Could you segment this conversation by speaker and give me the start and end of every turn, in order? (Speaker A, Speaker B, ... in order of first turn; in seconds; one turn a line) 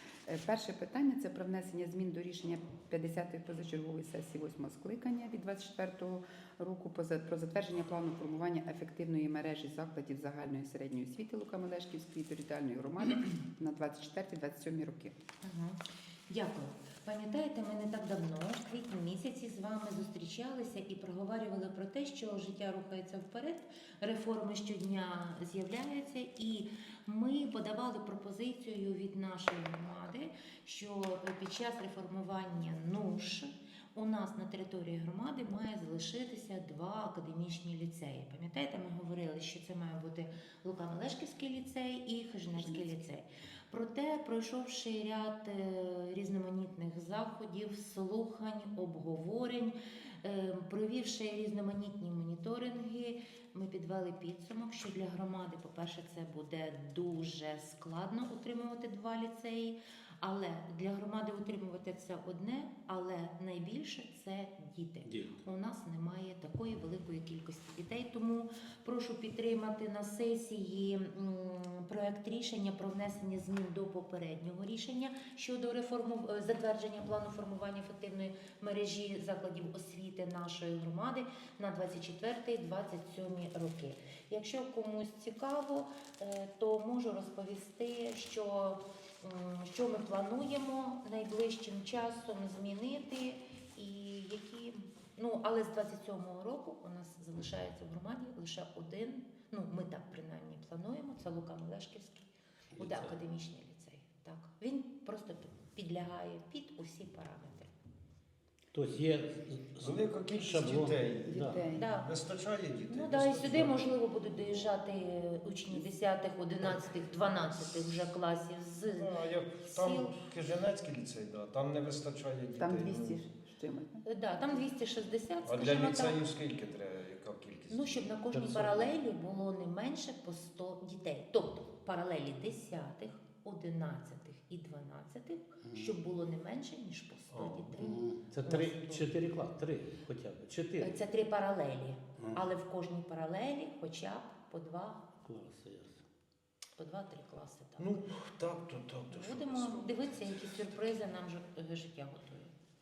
Speaker A: 0.2-15.2
Speaker B: 15.4-107.7
Speaker A: 42.6-43.0
Speaker C: 65.0-65.4
Speaker C: 102.8-103.2
Speaker C: 108.7-111.7
Speaker D: 109.8-114.7
Speaker A: 111.3-111.9
Speaker B: 111.8-112.1
Speaker B: 112.9-119.1
Speaker D: 119.0-123.2
Speaker B: 119.7-120.1
Speaker A: 122.5-124.0
Speaker B: 124.0-126.2
Speaker D: 125.5-128.2
Speaker B: 127.7-139.1
Speaker C: 128.3-128.9
Speaker C: 135.6-136.0
Speaker D: 137.3-137.8
Speaker C: 137.8-141.0
Speaker B: 140.8-145.1
Speaker C: 145.2-146.0
Speaker B: 146.8-148.0
Speaker D: 147.8-150.6
Speaker B: 149.1-152.5